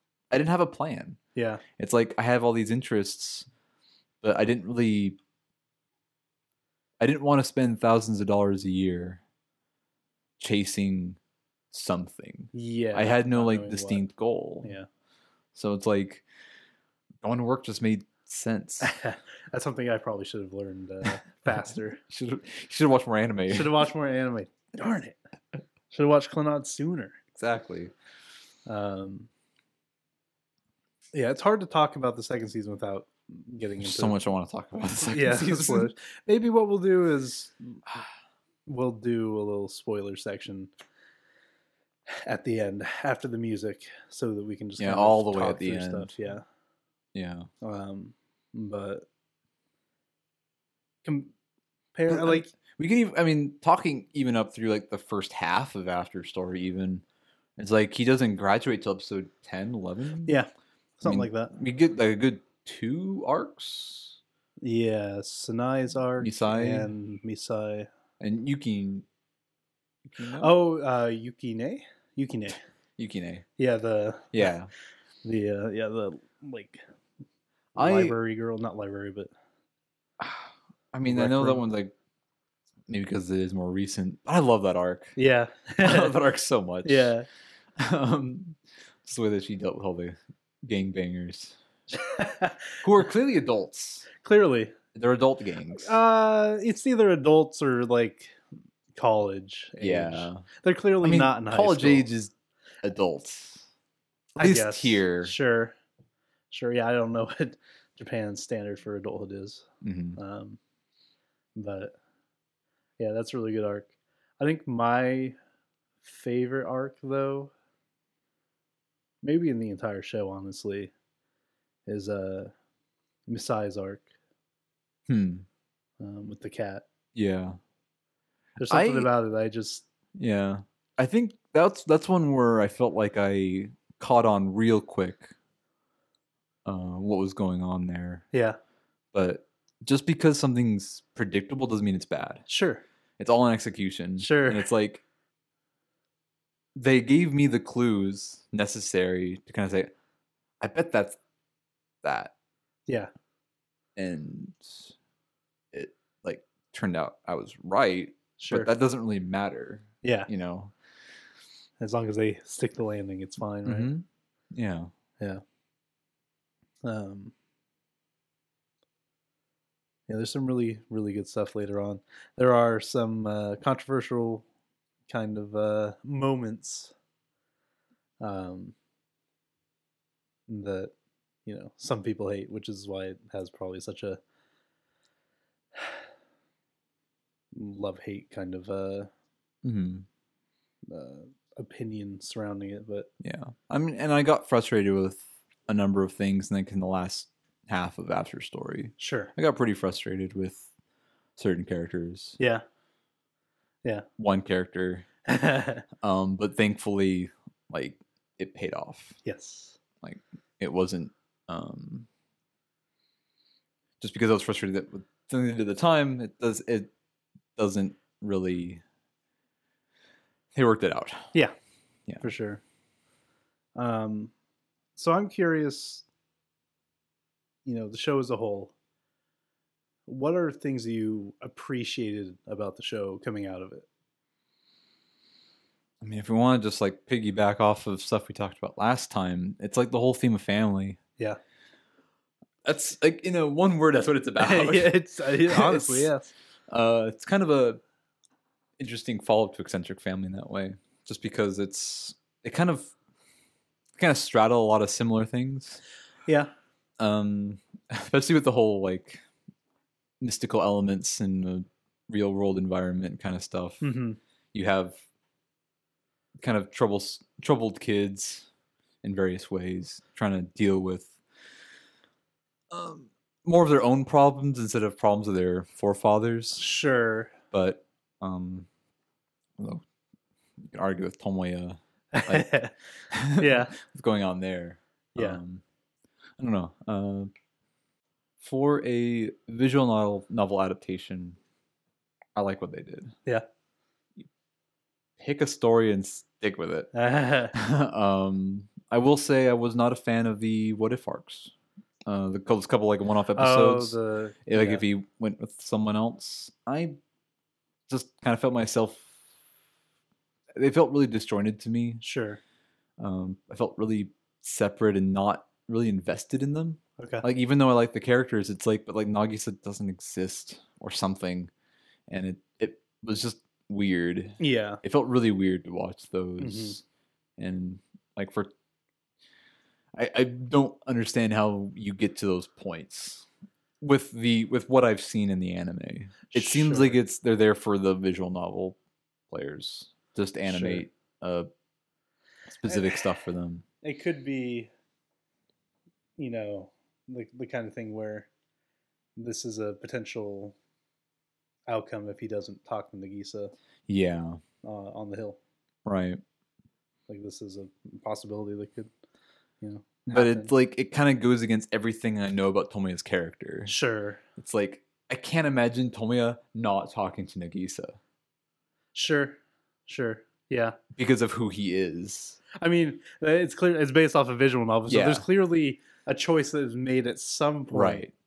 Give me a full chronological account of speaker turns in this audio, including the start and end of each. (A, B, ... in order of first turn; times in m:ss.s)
0:00.3-0:01.2 A
0:01.4-0:01.6 B
0:01.8-0:03.5 A
0:04.2-0:05.2 A
0:07.0-0:09.2 A
0:10.4-0:11.2 A
0:11.7-0:14.8 A
0:12.5-0:14.0 B
0:15.6-0:16.2 A
0:17.2-0:18.9 A
0:18.8-0:22.0 B
0:21.5-0:23.9 A
0:23.5-0:25.2 B
0:25.9-0:27.2 B
0:27.4-0:27.9 A
0:28.7-0:29.3 B
0:31.1-0:34.2 B
0:33.8-0:35.9 A
0:35.0-0:37.8 B
0:38.6-0:40.7 B
0:42.1-0:46.4 B
0:44.8-0:46.1 A
0:47.1-0:47.5 A
0:47.6-0:49.0 B
0:51.0-0:51.3 B
0:52.0-0:52.5 B
0:52.1-0:57.0 A
0:57.6-1:00.4 A
1:01.0-1:01.5 B
1:01.0-1:04.2 A
1:04.6-1:07.9 B
1:06.2-1:06.9 A
1:08.2-1:09.1 A
1:10.1-1:10.5 A
1:10.4-1:12.6 B
1:13.0-1:13.4 A
1:13.6-1:14.5 B
1:14.3-1:14.7 A
1:15.2-1:16.8 B
1:17.8-1:18.2 A
1:17.8-1:19.3 B
1:20.2-1:21.9 A
1:21.1-1:21.6 B
1:22.9-1:25.1 A
1:25.2-1:26.2 B
1:25.8-1:27.1 A
1:26.8-1:27.3 B
1:27.8-1:31.6 A
1:31.9-1:32.8 B
1:32.8-1:34.1 A
1:34.2-1:34.8 B
1:34.9-1:36.0 A
1:35.7-1:38.4 B
1:39.0-1:42.1 B
1:39.8-1:40.4 A
1:41.0-1:43.7 A
1:44.4-1:45.8 B
1:44.4-1:45.3 A
1:46.5-1:50.6 B
1:49.8-1:50.2 A
1:51.6-1:52.0 B
1:53.0-1:55.4 B
1:56.0-1:57.5 B
1:59.2-2:00.9 B
2:01.9-2:02.5 B
2:03.3-2:04.1 B
2:05.1-2:05.5 A
2:06.0-2:06.8 B
2:07.1-2:07.6 A
2:08.6-2:09.8 B
2:08.7-2:09.1 A
2:10.1-2:15.4 A
2:16.6-2:18.3 A
2:18.3-2:18.6 B
2:19.1-2:22.4 A
2:22.5-2:22.8 B
2:23.2-2:25.0 A
2:24.2-2:24.7 B
2:26.8-2:29.9 A
2:30.6-2:31.2 A
2:32.0-2:32.3 A
2:34.0-2:34.9 A
2:35.7-2:40.7 A
2:38.4-2:38.7 B
2:40.0-2:40.3 B
2:41.8-2:43.9 B
2:43.6-2:44.9 A
2:46.8-2:47.3 B
2:50.1-2:54.4 B
2:55.1-2:56.9 B
2:58.2-2:58.8 B
3:00.5-3:00.9 B
3:01.5-3:04.2 B
3:07.5-3:09.1 B
3:09.6-3:10.1 A
3:10.9-3:13.1 B
3:13.2-3:20.7 A
3:19.0-3:19.3 B
3:21.4-3:22.4 A
3:22.4-3:22.6 B
3:24.2-3:25.1 A
3:25.3-3:25.8 B
3:26.0-3:29.2 A
3:29.2-3:29.8 B
3:30.0-3:32.1 A
3:34.0-3:36.9 A
3:37.6-3:38.8 A
3:40.5-3:41.3 A
3:42.2-3:42.6 B
3:43.8-3:44.3 B
3:45.0-3:46.0 B
3:47.6-3:48.7 B
3:50.1-3:53.9 B
3:56.0-4:01.0 A
4:02.6-4:06.1 A
4:04.4-4:06.3 B
4:06.7-4:07.8 A
4:08.8-4:12.9 A
4:14.0-4:15.8 A
4:16.3-4:16.5 B
4:17.0-4:19.2 A
4:20.2-4:23.9 A
4:23.8-4:24.2 B
4:24.5-4:25.0 A
4:26.4-4:28.5 A
4:29.0-4:31.1 A
4:32.7-4:36.6 A
4:36.6-4:37.4 B
4:37.5-4:38.7 A
4:39.6-4:39.8 A
4:40.6-4:42.5 A
4:42.1-4:42.7 B
4:43.1-4:45.6 A
4:43.3-4:43.7 B
4:46.4-4:47.3 A
4:48.4-4:51.4 A
4:52.4-4:53.1 A
4:55.2-4:56.9 A
4:56.9-4:57.6 B
4:57.5-5:01.5 A
5:02.1-5:07.0 A
5:03.4-5:04.8 B
5:07.9-5:09.1 A
5:10.6-5:12.0 A
5:12.0-5:12.4 B
5:13.0-5:21.5 A
5:17.0-5:17.2 B
5:22.1-5:26.8 A
5:24.4-5:24.8 B
5:26.4-5:26.8 B
5:27.4-5:28.5 A
5:29.9-5:33.3 A
5:33.8-5:38.8 A
5:36.3-5:37.0 B
5:39.3-5:41.5 A
5:40.5-5:40.8 B
5:42.5-5:43.6 A
5:43.8-5:44.7 B
5:46.2-5:48.3 B
5:49.2-5:50.6 B
5:51.7-5:53.5 B
5:53.9-5:54.4 A
5:54.6-5:55.4 B
5:55.9-5:56.2 A
5:57.1-5:58.9 B
5:59.6-6:00.5 B
6:00.1-6:03.7 A
6:03.6-6:04.2 B
6:04.4-6:08.0 A
6:09.0-6:10.8 B
6:11.0-6:12.4 A
6:12.5-6:18.0 B
6:14.9-6:15.2 A
6:17.7-6:18.1 A